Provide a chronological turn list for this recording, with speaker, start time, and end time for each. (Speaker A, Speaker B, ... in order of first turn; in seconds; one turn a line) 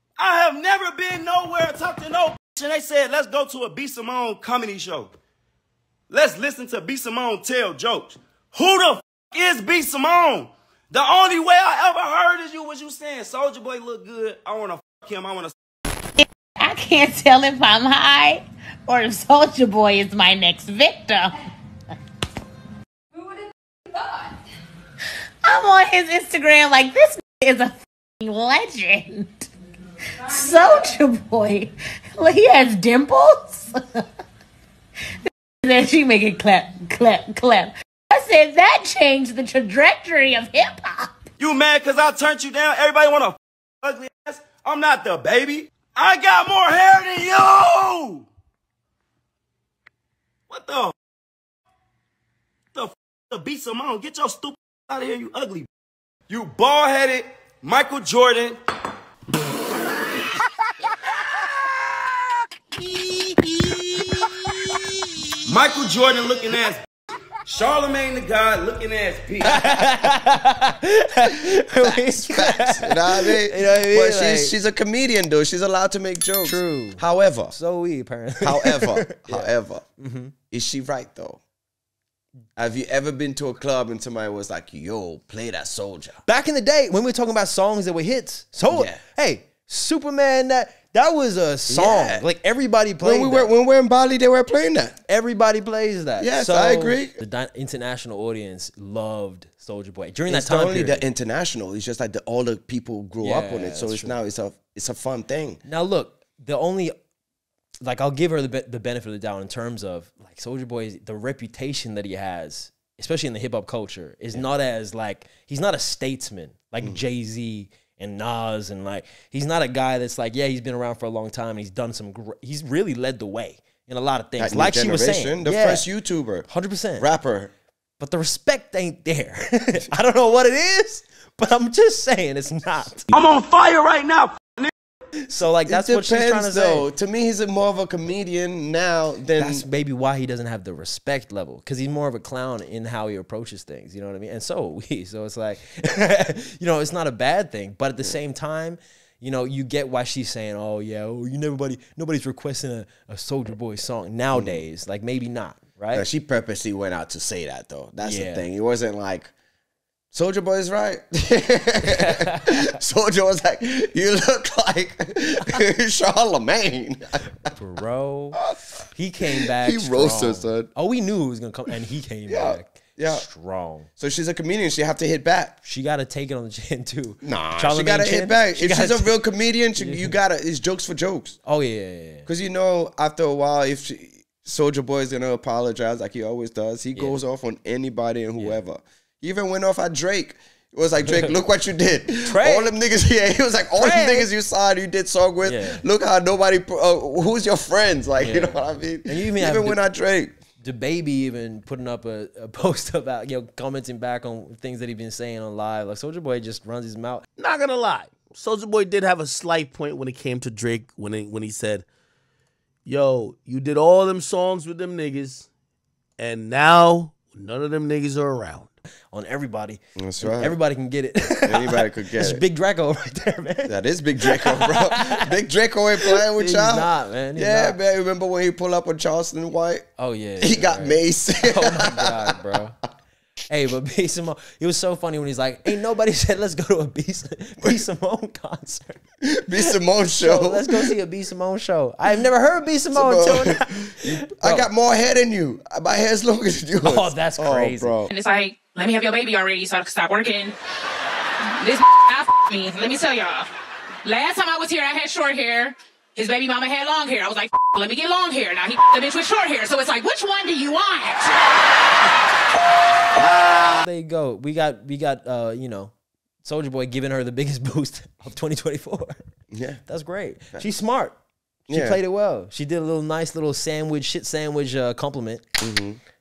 Speaker A: 0.2-5.2
Speaker A: 6.1-15.6
Speaker B: 16.2-21.3
Speaker B: 25.4-29.5
Speaker B: 30.2-34.0
Speaker B: 35.6-41.1
Speaker A: 41.4-48.3
Speaker A: 50.5-51.0
Speaker A: 52.7-55.7
Speaker A: 56.3-58.6
Speaker A: 65.5-66.8
Speaker A: 67.5-69.9
Speaker C: 69.5-74.6
Speaker D: 71.8-77.6
Speaker C: 76.4-80.3
Speaker D: 78.4-79.8
Speaker D: 80.5-81.4
Speaker D: 82.6-86.2
Speaker C: 86.2-93.5
Speaker D: 88.7-89.0
Speaker D: 91.7-92.3
Speaker D: 93.0-95.0
Speaker C: 95.1-101.0
Speaker D: 96.2-97.2
Speaker D: 100.3-105.6
Speaker C: 103.2-104.2
Speaker C: 105.7-106.9
Speaker C: 107.8-125.9
Speaker D: 124.4-127.5
Speaker C: 126.5-127.1
Speaker C: 128.0-133.1
Speaker A: 133.1-134.7
Speaker C: 135.3-136.9
Speaker D: 135.7-139.7
Speaker C: 139.4-156.1
Speaker D: 154.3-154.6
Speaker D: 155.9-159.3
Speaker C: 158.0-158.4
Speaker D: 160.1-167.5
Speaker C: 161.9-162.6
Speaker C: 167.5-168.4
Speaker C: 168.9-173.9
Speaker D: 169.3-170.7
Speaker D: 172.3-173.3
Speaker D: 174.0-175.6
Speaker C: 175.6-179.1
Speaker D: 177.2-181.4
Speaker C: 179.8-180.2
Speaker C: 181.4-182.3
Speaker D: 182.3-200.3
Speaker C: 192.2-192.7
Speaker C: 193.8-194.3
Speaker C: 195.4-195.8
Speaker C: 198.2-199.9
Speaker C: 200.6-207.3
Speaker E: 207.4-211.9
Speaker E: 212.8-215.5
Speaker E: 216.2-218.7
Speaker C: 219.1-225.2
Speaker D: 220.0-220.6
Speaker D: 221.5-222.4
Speaker D: 223.7-229.9
Speaker C: 226.1-227.8
Speaker C: 230.0-232.8
Speaker D: 230.4-232.6
Speaker C: 233.5-239.0
Speaker D: 239.3-240.9
Speaker C: 239.6-244.7
Speaker D: 242.9-248.1
Speaker C: 246.8-248.0
Speaker F: 248.1-250.5
Speaker F: 251.6-253.5
Speaker F: 254.0-261.4
Speaker C: 263.7-265.9
Speaker C: 266.4-269.2
Speaker D: 269.5-269.8
Speaker C: 269.9-271.2
Speaker D: 271.7-272.0
Speaker C: 271.7-275.4
Speaker D: 275.6-276.0